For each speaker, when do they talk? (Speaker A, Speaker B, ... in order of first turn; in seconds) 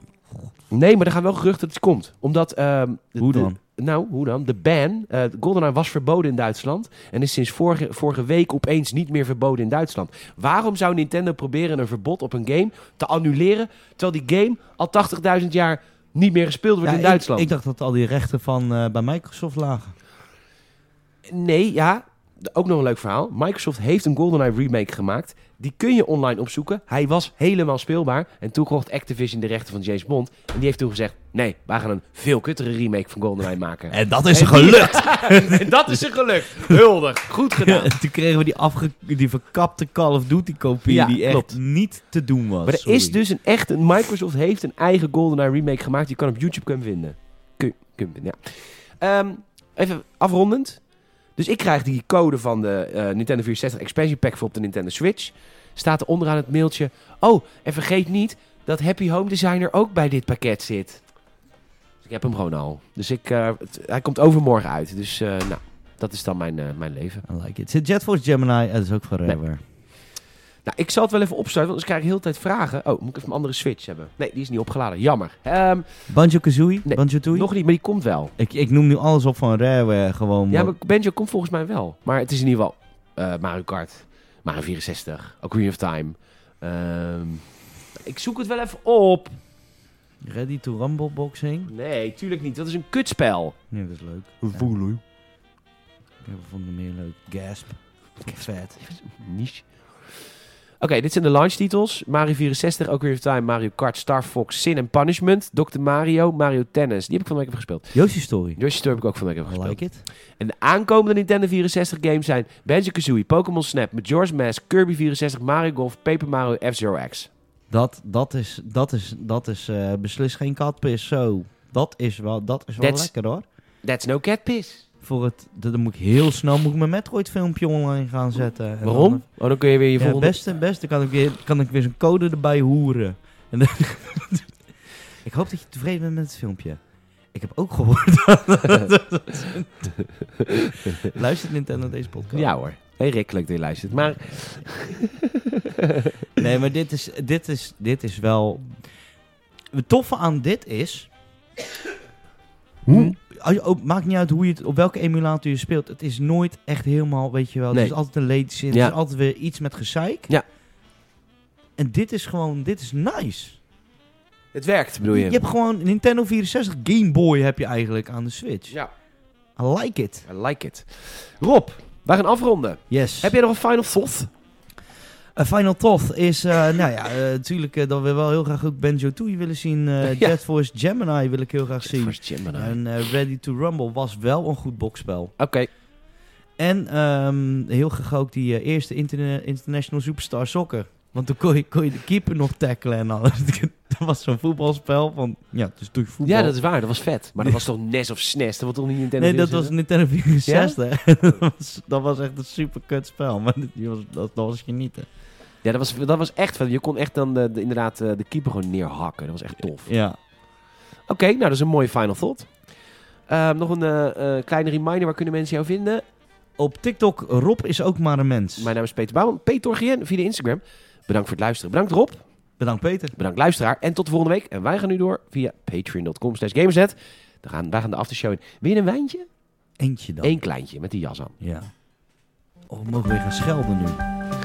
Speaker A: 0.7-17.5, 21.3-37.9, 40.9-41.6, 42.7-50.8, 51.4-61.0, 62.0-67.3, 70.7-75.9, 76.8-78.3, 80.5-87.5, 88.0-89.4, 91.7-93.6, 94.4-95.0, 98.2-100.2, 100.8-108.0, 108.6-109.8, 110.4-117.3, 122.8-123.1, 123.8-124.9, 128.8-130.4, 140.4-141.1, 142.3-146.1, 152.9-153.2, 158.7-159.0, 164.5-165.4, 170.3-174.3, 180.0-180.4, 181.8-182.8, 185.4-185.7, 196.2-199.7, 200.5-200.8, 205.6-209.9, 211.1-212.5, 213.3-216.0, 218.6-222.2, 223.2-229.3, 230.2-231.3
Speaker B: 3.2-3.6, 16.8-19.9, 33.9-36.1, 37.6-43.2, 67.3-69.6, 76.1-77.5, 78.4-80.7, 90.2-91.7, 93.7-94.7, 96.2-98.8, 107.9-108.6, 109.5-110.0, 117.7-123.5, 125.0-129.3, 130.0-134.5, 135.2-136.8, 137.3-142.5, 146.4-148.8, 149.7-151.1, 152.9-160.3, 161.8-163.6, 165.1-168.7, 169.6-170.2, 172.9-173.3, 175.4-185.3, 186.6-196.6, 199.2-205.1, 209.9-210.2, 216.6-218.7, 222.6-223.2, 229.8-230.4, 231.4-231.7, 232.7-234.0